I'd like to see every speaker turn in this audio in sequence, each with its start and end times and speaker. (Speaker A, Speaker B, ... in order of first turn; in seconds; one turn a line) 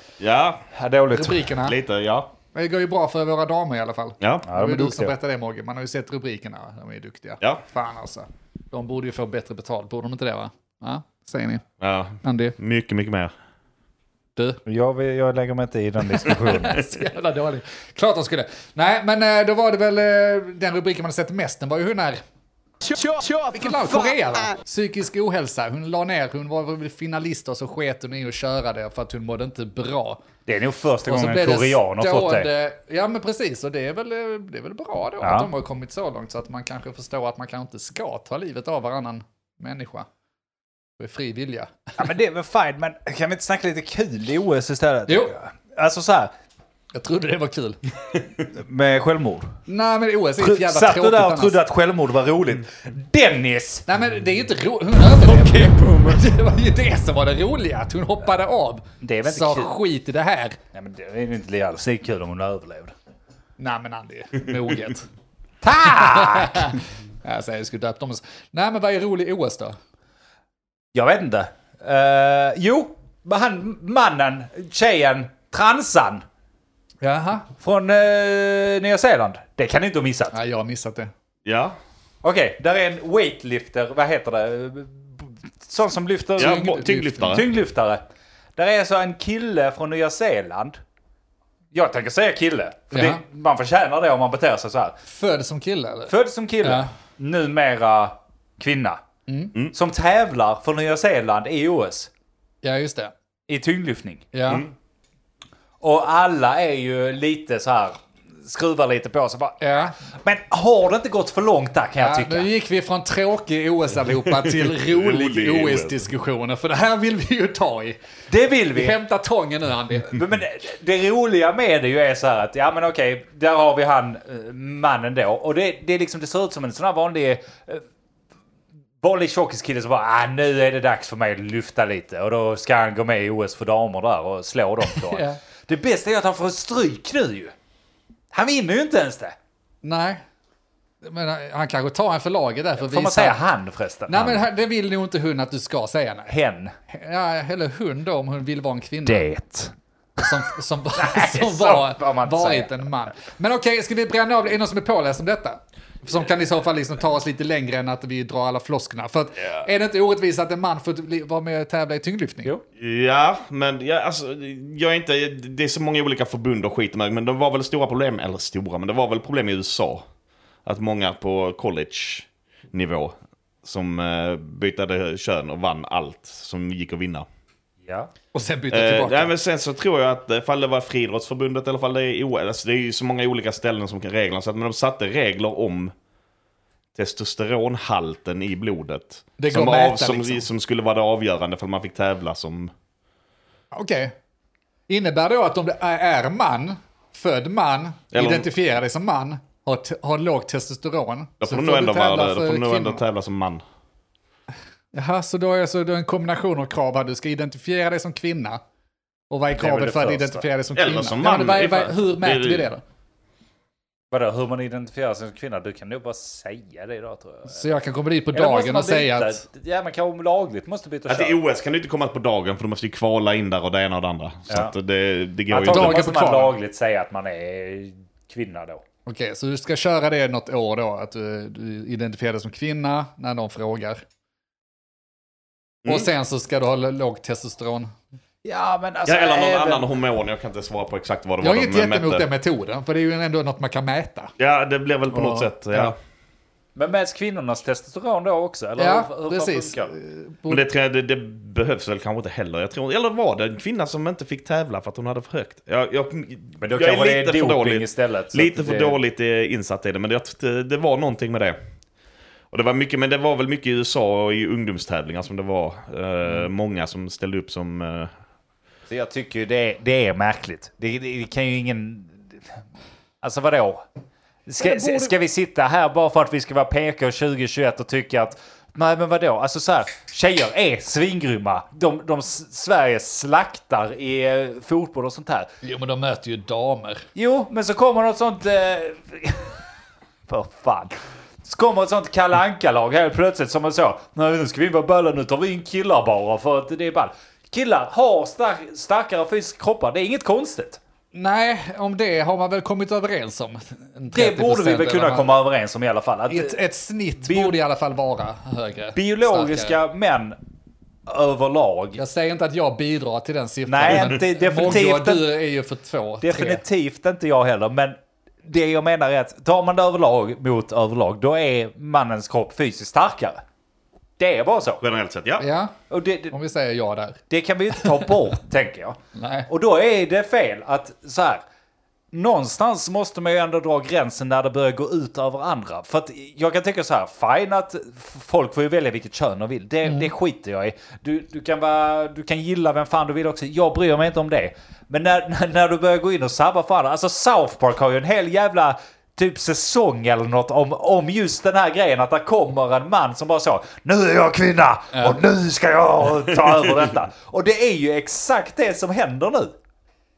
Speaker A: 0.2-0.7
Speaker B: 0.7-1.5
Speaker C: 1.1-1.8
Speaker A: 1.6-2.3
Speaker C: 2.5-11.6
Speaker A: 4.2-4.5
Speaker B: 4.5-5.1
Speaker A: 11.8-13.3
Speaker C: 12.2-12.6
Speaker B: 14.7-16.8
Speaker C: 16.3-22.2
Speaker C: 22.9-30.2
Speaker B: 30.5-32.5
Speaker C: 31.1-40.1
Speaker B: 35.2-35.5
Speaker C: 41.0-41.9
Speaker B: 42.0-46.3
Speaker C: 45.1-45.3
Speaker C: 46.9-47.8
Speaker B: 48.5-49.5
Speaker C: 49.7-51.6
Speaker B: 50.4-53.9
Speaker C: 53.9-60.6
Speaker B: 59.0-59.7
Speaker B: 60.7-62.9
Speaker C: 63.6-65.1
Speaker B: 65.6-66.8
Speaker C: 65.8-69.8
Speaker B: 70.9-76.2
Speaker C: 77.0-77.5
Speaker B: 77.6-80.3
Speaker C: 80.3-81.1
Speaker A: 81.5-81.8
Speaker B: 82.2-88.0
Speaker A: 86.4-87.5
Speaker C: 86.4-87.3
Speaker B: 88.6-90.8
Speaker B: 91.7-95.0
Speaker C: 92.9-93.2
Speaker C: 95.1-96.9
Speaker B: 96.1-99.0
Speaker C: 99.3-99.5
Speaker B: 99.7-102.1
Speaker C: 102.6-103.1
Speaker B: 103.5-104.3
Speaker C: 104.3-104.7
Speaker B: 105.8-112.5
Speaker C: 109.6-110.0
Speaker C: 112.0-118.0
Speaker A: 114.4-116.0
Speaker B: 118.3-119.0
Speaker C: 118.7-120.2
Speaker B: 120.1-127.8
Speaker B: 129.0-137.5
Speaker C: 135.0-135.4
Speaker B: 138.3-139.4
Speaker C: 139.8-140.2
Speaker C: 141.0-143.4
Speaker B: 142.8-144.5
Speaker C: 144.1-146.3
Speaker B: 146.3-146.7
Speaker C: 146.9-149.3
Speaker B: 149.1-150.2
Speaker C: 150.2-162.5
Speaker B: 151.0-152.9
Speaker A: 162.8-170.0
Speaker A: 170.7-177.3
Speaker B: 177.8-178.1
Speaker C: 178.3-179.3
Speaker A: 178.7-185.9
Speaker A: 186.9-192.7
Speaker C: 189.4-190.5
Speaker C: 193.7-194.1
Speaker C: 194.9-203.0
Speaker A: 198.1-198.5
Speaker A: 201.4-203.6
Speaker C: 204.9-208.6
Speaker C: 209.3-212.8
Speaker B: 209.6-210.4
Speaker A: 210.8-212.7
Speaker B: 214.1-217.7
Speaker C: 217.5-219.4
Speaker B: 218.3-221.4
Speaker A: 221.1-226.0
Speaker B: 224.5-224.7
Speaker B: 225.5-228.8
Speaker C: 225.6-226.5
Speaker C: 229.1-234.0
Speaker C: 235.8-237.9
Speaker B: 238.4-239.9
Speaker A: 239.1-242.3
Speaker C: 241.4-244.3
Speaker A: 244.4-245.9
Speaker C: 245.1-245.9
Speaker B: 246.8-249.9
Speaker C: 248.8-250.7
Speaker A: 250.5-261.6
Speaker B: 256.6-259.0
Speaker A: 262.5-268.1
Speaker B: 268.9-272.6
Speaker B: 273.2-273.9
Speaker B: 274.5-285.5
Speaker C: 274.6-275.1
Speaker C: 285.6-287.1
Speaker B: 287.1-289.5
Speaker B: 290.3-300.8
Speaker C: 301.1-305.4
Speaker B: 304.1-306.6
Speaker C: 306.3-309.8
Speaker B: 307.2-307.6
Speaker B: 308.9-310.4
Speaker B: 311.1-312.0
Speaker C: 312.0-316.6
Speaker B: 313.7-315.3
Speaker B: 316.2-323.4
Speaker B: 324.2-324.8
Speaker A: 324.8-325.4
Speaker C: 325.4-325.8
Speaker B: 325.9-326.3
Speaker C: 326.3-327.2
Speaker B: 327.3-331.4
Speaker C: 327.7-328.1
Speaker C: 329.1-329.5
Speaker B: 332.1-359.5
Speaker C: 339.9-340.1
Speaker C: 354.9-355.2